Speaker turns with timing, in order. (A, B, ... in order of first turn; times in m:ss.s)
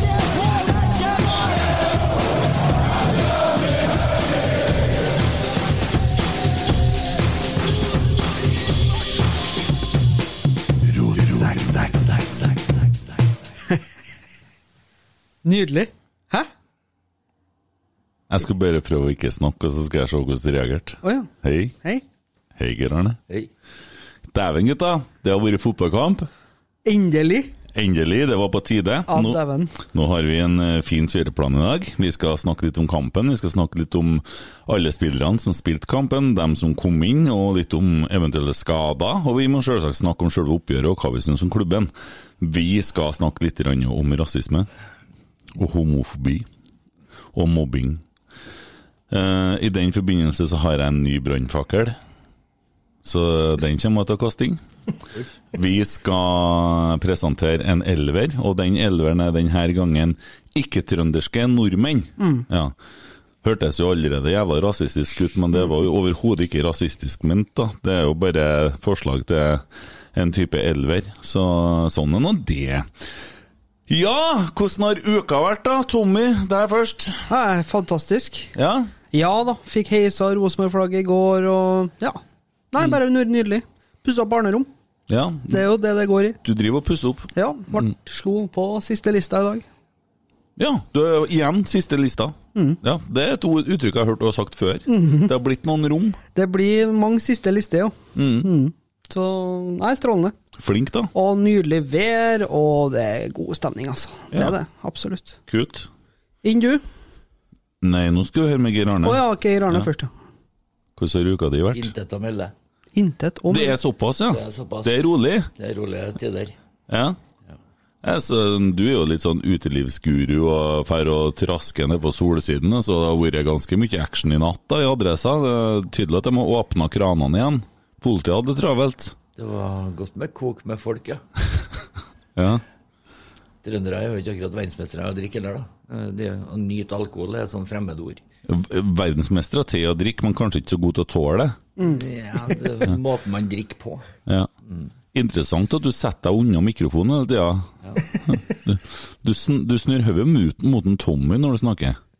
0:15.4-0:16.5 A
0:18.3-0:21.7 B
0:21.0-0:21.3 A
0:22.6-0:23.2 B
0:24.3-0:26.3 B
0:26.8-0:27.5 A
0:27.7-0:44.7 B
0:29.1-0:29.7 A
0:45.6-0:46.4 B
0:47.3-0:48.0 B
0:49.1-0:52.0 B
0:53.0-0:54.6 B
0:55.5-1:02.7 B
1:02.2-1:02.4 A
1:03.4-1:12.9 B
1:13.9-1:17.3 B
1:17.3-1:18.5 A
1:18.5-1:18.9 B
1:19.1-1:22.2 A
1:22.7-1:24.7 A
1:25.1-1:25.6 B
1:25.5-1:26.4 A
1:26.4-1:27.9 B
1:27.3-1:29.6 A
1:30.6-1:36.2 B
1:32.5-1:32.8 A
1:34.9-1:35.3 A
1:36.3-1:40.3 A
1:38.1-1:38.5 B
1:40.6-1:41.1 B
1:41.1-1:45.4 A
1:45.5-1:45.9 B
1:46.4-1:46.8 A
1:47.8-1:49.9 B
1:49.0-1:50.1 A
1:51.0-1:51.9 B
1:51.7-1:52.5 C
1:53.0-1:53.8 A
1:53.5-1:55.5 B
1:54.3-1:55.0 C
1:55.6-1:56.5 C
1:56.9-1:57.2 B
1:58.0-2:09.2 B
2:09.4-2:11.2 C
2:12.4-2:12.6 B
2:13.6-2:18.2 C
2:18.4-2:21.6 B
2:21.8-2:24.0 C
2:25.1-2:27.7 B
2:28.2-2:32.0 B